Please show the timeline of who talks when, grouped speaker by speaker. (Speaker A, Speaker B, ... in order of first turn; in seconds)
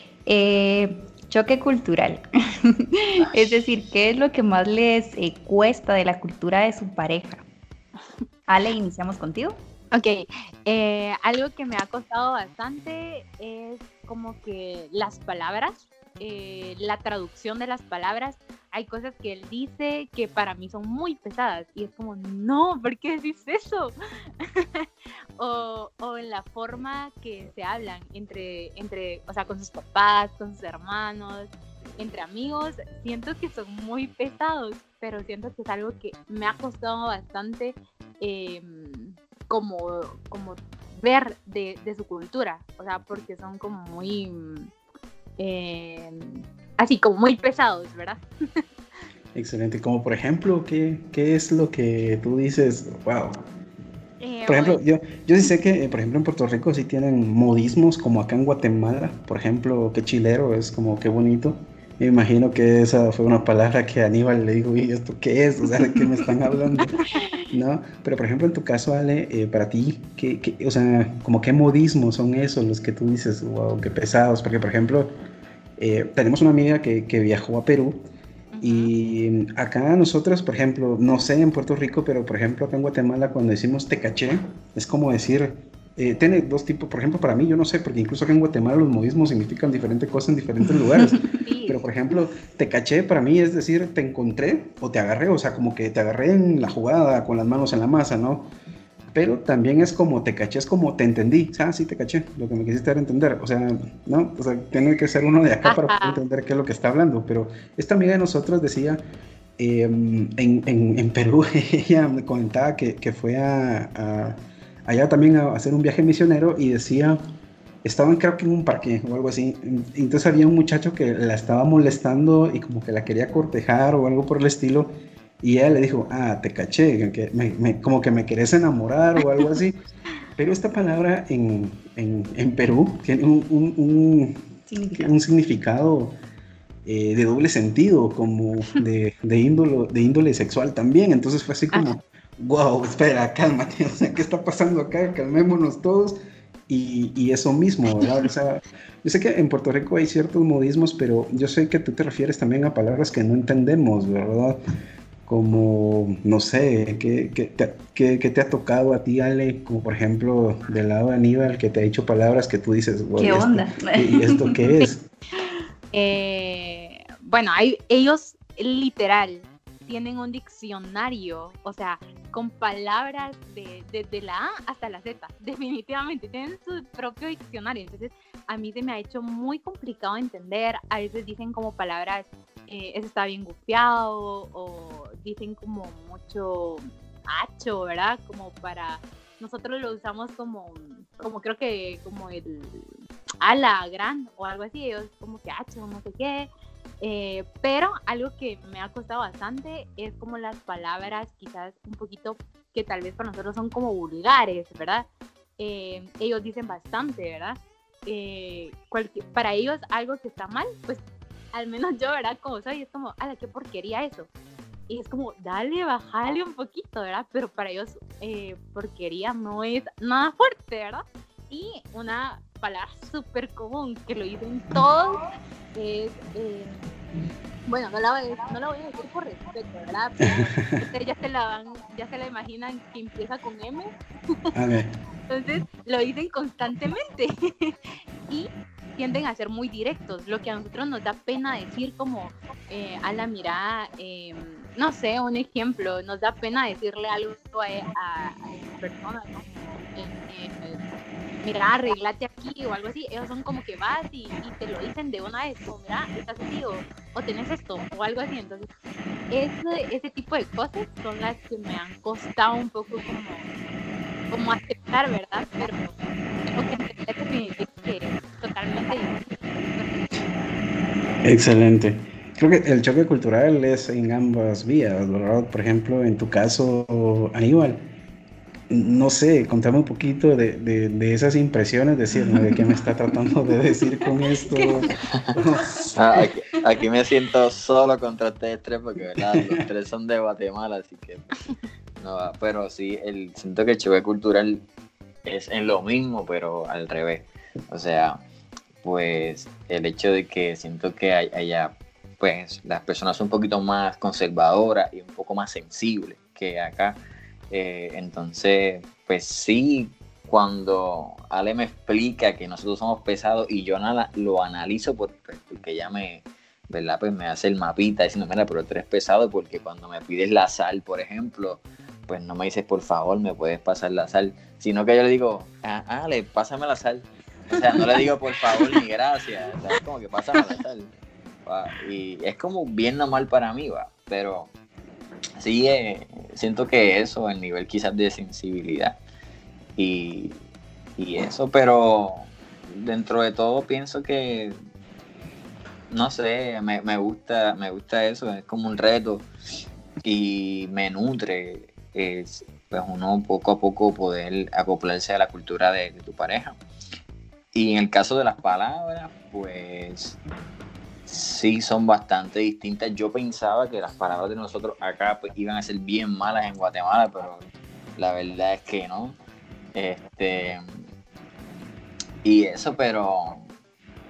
Speaker A: 0.2-7.4, 8.5-9.6, 134.7-135.1, 163.2-164.7, 284.5-284.9, 285.4-285.9
Speaker B: 3.2-3.6, 285.9-291.4, 292.0-294.6, 295.2-298.2, 298.8-330.9, 331.4-334.5, 335.4-339.0, 339.8-340.4, 341.0-344.6, 345.9-349.3, 350.0-356.6, 357.5-360.2, 361.1-367.4, 368.0-369.2, 369.7-370.6, 372.2-373.4
Speaker C: 9.9-44.7, 45.4-48.6, 54.2-54.8, 78.5-78.9, 91.4-91.8, 105.7-106.2, 165.9-192.9, 193.4-196.5, 197.0-205.1, 205.6-214.3, 214.9-225.2, 225.7-226.8, 227.7-234.5, 235.3-237.8, 238.3-250.8, 251.4-258.7, 259.3-263.5, 264.3-265.9, 266.5-270.0
Speaker D: 49.3-53.4, 54.5-75.1, 75.8-78.0, 78.6-98.5, 99.1-109.0, 109.6-117.2, 117.8-124.9, 125.4-129.8, 130.4-136.1, 136.8-146.2, 146.7-154.6, 155.2-165.1, 230.4-230.8, 234.5-234.9, 271.2-277.8, 278.7-285.9, 289.3-289.6